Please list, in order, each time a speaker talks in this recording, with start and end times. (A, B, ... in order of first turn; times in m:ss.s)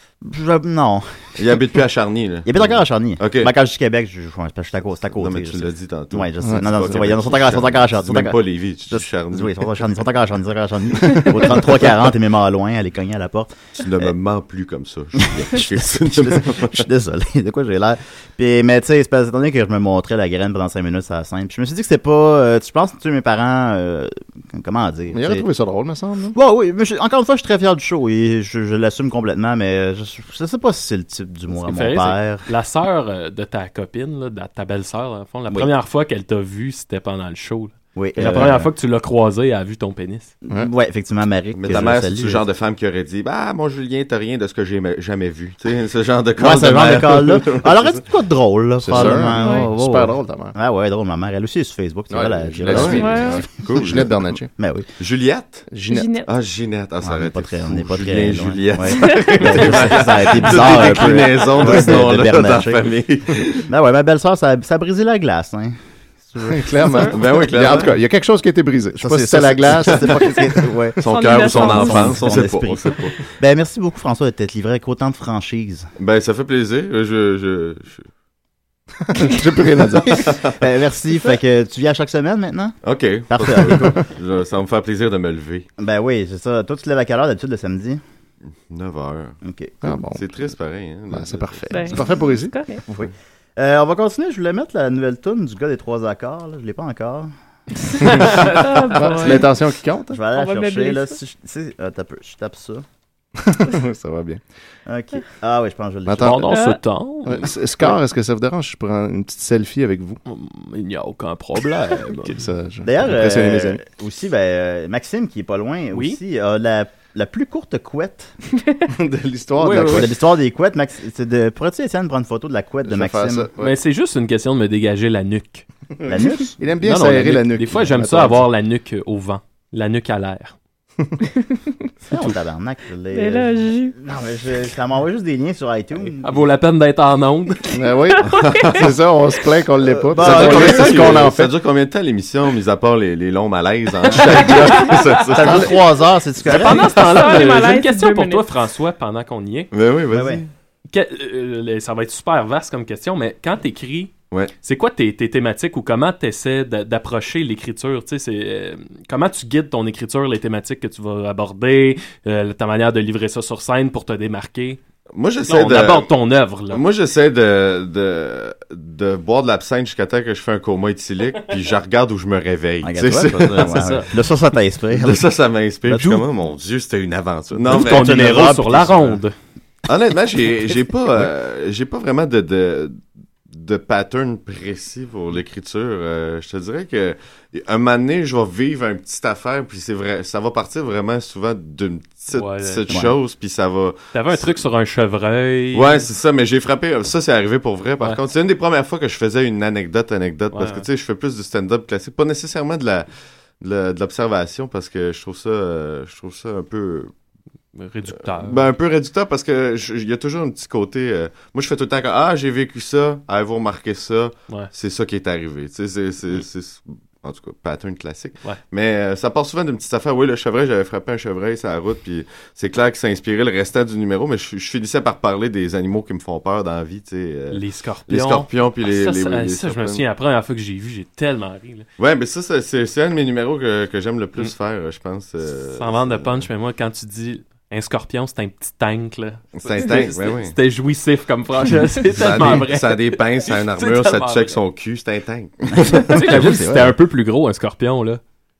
0:00.2-0:01.2 A
0:01.4-0:03.5 B
0:02.4-0:08.4 A
0:05.0-0:09.8 B
0:06.4-0:06.8 C
0:08.9-0:14.1 A
0:13.8-0:16.8 B
0:15.2-0:25.4 A
0:25.1-0:26.4 C
0:26.3-0:32.5 A
0:31.5-0:40.3 D
0:37.9-0:38.7 A
0:40.5-0:42.4 A
0:41.5-0:48.0 B
0:46.4-0:53.4 A
0:48.8-0:50.5 C
0:49.4-0:49.7 E
0:52.1-0:54.5 C
0:52.6-0:54.3 B
0:52.9-0:53.4 E
0:54.6-0:54.8 A
0:55.0-0:55.7 B
0:55.7-0:56.2 C
0:55.9-0:56.3 E
0:56.3-1:03.7 B
0:57.0-1:02.8 A
0:59.0-0:59.4 E
1:03.7-1:06.7 A
1:06.5-1:10.4 C
1:07.1-1:08.0 B
1:09.0-1:15.9 A
1:11.0-1:13.2 B
1:11.1-1:12.3 E
1:16.0-1:18.1 B
1:19.1-1:20.2 C
1:20.1-1:22.8 A
1:20.1-1:20.6 B
1:22.8-1:25.7 B
1:23.3-1:24.0 A
1:25.8-1:28.0 A
1:28.7-1:29.4 B
1:29.4-1:29.9 A
1:29.8-1:30.4 C
1:30.1-1:32.0 B
1:31.1-1:32.6 C
1:31.7-1:32.8 E
1:32.9-1:37.3 A
1:38.0-1:39.5 E
1:38.9-1:40.2 C
1:40.1-1:42.8 A
1:40.3-1:41.2 E
1:43.4-1:44.4 C
1:44.9-1:46.5 A
1:46.1-1:46.5 C
1:46.2-1:47.9 D
1:46.5-1:46.8 E
1:47.2-1:50.2 C
1:50.2-1:52.4 D
1:52.2-1:53.8 C
1:52.8-1:58.3 A
1:55.9-1:56.2 D
1:58.9-2:00.1 C
1:59.6-2:00.1 D
1:59.8-2:03.5 A
2:02.9-2:03.8 C
2:03.6-2:05.6 D
2:06.0-2:08.5 C
2:06.1-2:06.6 A
2:06.8-2:10.6 D
2:12.1-2:16.2 A
2:13.1-2:13.9 E
2:16.2-2:17.7 D
2:17.7-2:21.5 C
2:18.3-2:18.8 E
2:18.3-2:18.8 B
2:19.8-2:21.2 A
2:20.2-2:25.8 B
2:24.2-2:25.2 D
2:25.3-2:26.9 A
2:26.4-2:29.7 D
2:26.5-2:28.5 E
2:29.7-2:30.5 B
2:30.1-2:30.4 A
2:30.9-2:44.8 D
2:45.1-2:46.1 B
2:45.5-2:46.8 D
2:46.7-2:53.9 B
2:52.8-2:55.2 A
2:53.6-2:54.1 D
2:54.9-2:58.3 B
2:55.8-2:56.2 A
2:57.6-2:59.2 A
2:57.7-2:59.3 D
2:59.9-3:03.0 B
3:03.5-3:14.6 B
3:12.3-3:12.8 D
3:12.9-3:13.1 A
3:14.1-3:16.0 D
3:15.7-3:23.1 B
3:20.5-3:20.8 D
3:23.6-3:27.1 B
3:27.7-3:28.6 D
3:28.4-3:50.0 B
3:47.5-3:51.8 D
3:52.0-3:56.4 B
3:55.7-4:04.6 D
3:59.6-4:00.5 B
4:02.1-4:06.4 B
4:05.8-4:06.9 A
4:05.9-4:08.2 D